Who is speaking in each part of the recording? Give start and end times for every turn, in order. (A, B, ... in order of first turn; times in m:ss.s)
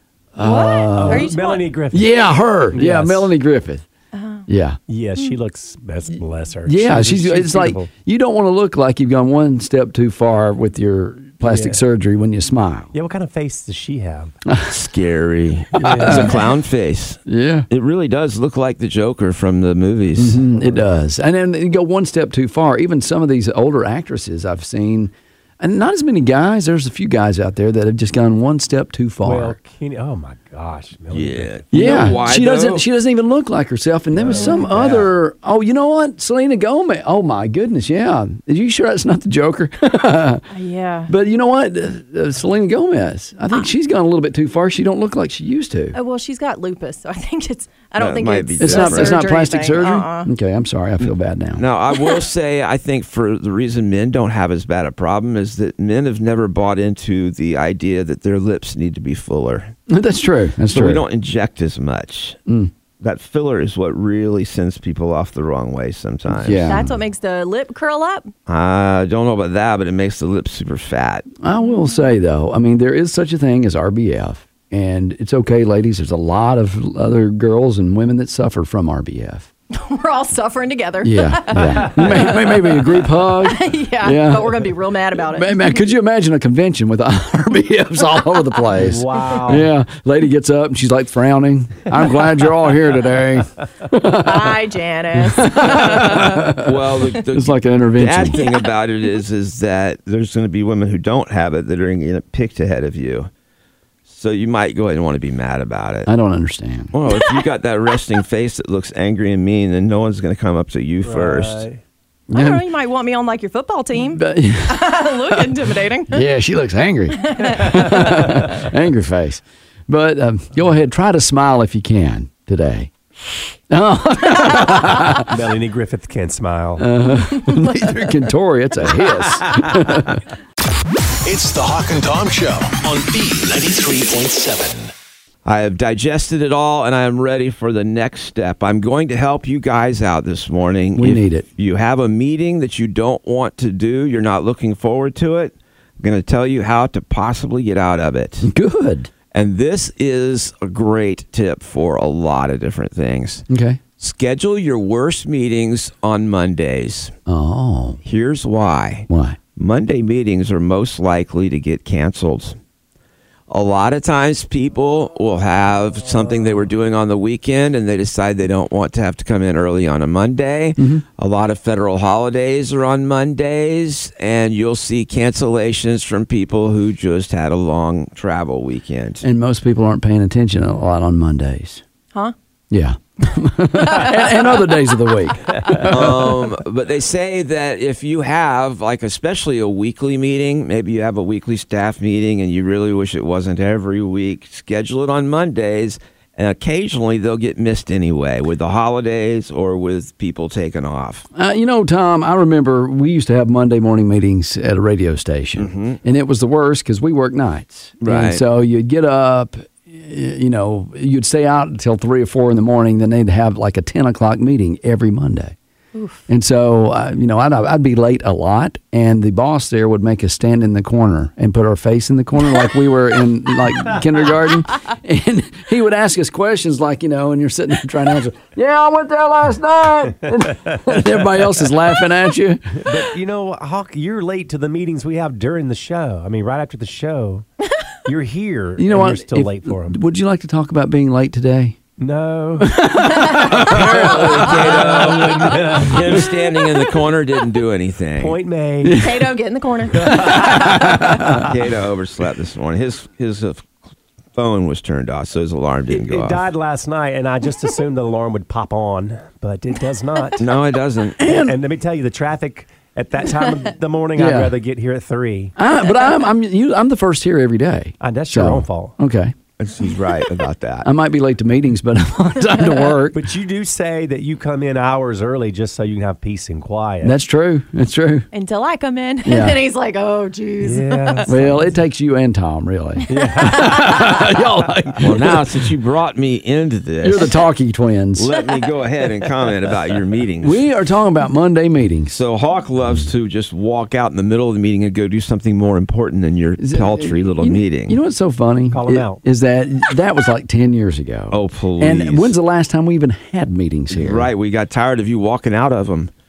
0:00.3-0:01.3 A
0:00.4-0:01.7 B
0:00.9-0:02.1 C
0:01.9-0:03.8 A
0:02.7-0:03.3 C
0:04.1-0:04.4 B
0:04.5-0:04.8 A
0:04.9-0:07.9 C
0:06.6-0:12.9 A
0:11.4-0:11.8 C
0:12.9-0:14.3 C
0:14.5-0:14.7 A
0:14.7-0:20.4 D
0:15.8-0:16.3 C
0:15.8-0:16.4 A
0:17.3-0:17.7 A
0:20.2-0:29.6 A
0:29.2-0:32.0 C
0:31.1-0:32.8 D
0:31.7-0:40.4 A
0:34.1-0:35.1 C
0:34.4-0:34.7 B
0:40.5-0:41.1 B
0:41.1-0:46.0 A
0:45.9-0:50.3 B
0:48.0-0:49.2 D
0:48.6-0:51.6 A
0:51.6-0:59.7 D
0:59.9-1:01.0 A
1:00.7-1:02.4 D
1:02.5-1:02.7 A
1:03.0-1:06.7 D
1:06.3-1:07.0 A
1:06.7-1:08.3 B
1:08.5-1:11.2 D
1:11.4-1:19.5 A
1:19.7-1:22.9 B
1:21.0-1:34.6 A
1:23.4-1:25.7 B
1:28.7-1:29.7 C
1:34.1-1:36.5 B
1:35.2-1:38.4 A
1:36.6-1:43.3 D
1:38.3-1:38.6 B
1:44.1-1:46.1 D
1:46.1-1:46.9 A
1:46.9-1:51.7 D
1:51.0-1:51.8 C
1:52.3-1:52.6 A
1:52.3-1:56.2 B
1:54.1-1:55.5 A
1:56.1-2:02.9 A
1:57.3-1:58.2 B
2:03.7-2:05.3 A
2:05.3-2:06.9 C
2:06.8-2:10.2 A
2:07.4-2:07.8 B
2:11.2-2:14.9 E
2:15.4-2:28.5 D
2:20.9-2:21.4 A
2:28.4-2:29.1 A
2:29.3-2:33.4 D
2:33.5-2:33.8 A
2:34.0-2:37.1 D
2:37.3-2:38.0 A
2:38.0-2:42.6 D
2:39.1-2:39.4 A
2:43.5-2:59.2 D
2:50.8-2:51.0 A
2:59.2-3:01.8 A
3:02.7-3:06.4 A
3:05.9-3:21.2 D
3:21.4-3:35.6 A
3:25.6-3:26.0 D
3:28.0-3:28.4 D
3:35.9-3:36.2 B
3:36.3-3:52.9 A
3:52.8-3:57.4 C
3:58.0-4:00.0 C
3:58.8-4:01.8 A
4:02.0-4:02.8 C
4:02.6-4:04.5 A
4:03.1-4:03.6 B
4:03.5-4:08.4 D
4:04.4-4:06.2 C
4:08.2-4:09.0 C
4:08.8-4:09.2 A
4:08.9-4:10.9 B
4:10.0-4:11.5 A
4:10.0-4:10.5 C
4:11.4-4:13.6 D
4:14.4-4:16.5 D
4:15.9-4:20.4 C
4:20.4-4:21.2 D
4:21.2-4:21.6 A
4:21.2-4:25.5 C
4:24.2-4:24.5 A
4:25.6-4:29.3 A
4:28.0-4:29.0 C
4:29.6-4:30.9 D
4:30.8-4:33.2 A
4:33.1-4:37.2 C
4:37.0-4:38.3 A
4:38.3-4:41.3 B
4:39.2-4:39.6 A
4:40.6-4:41.7 C
4:41.3-4:45.5 A
4:43.1-4:44.1 C
4:43.2-4:44.0 B
4:45.0-4:47.3 D
4:47.0-4:48.3 A
4:48.2-4:50.6 D
4:50.4-4:52.2 A
4:52.1-4:58.0 D
4:56.6-5:04.3 A
4:58.7-4:59.2 C
5:01.3-5:02.3 D
5:03.9-5:06.1 D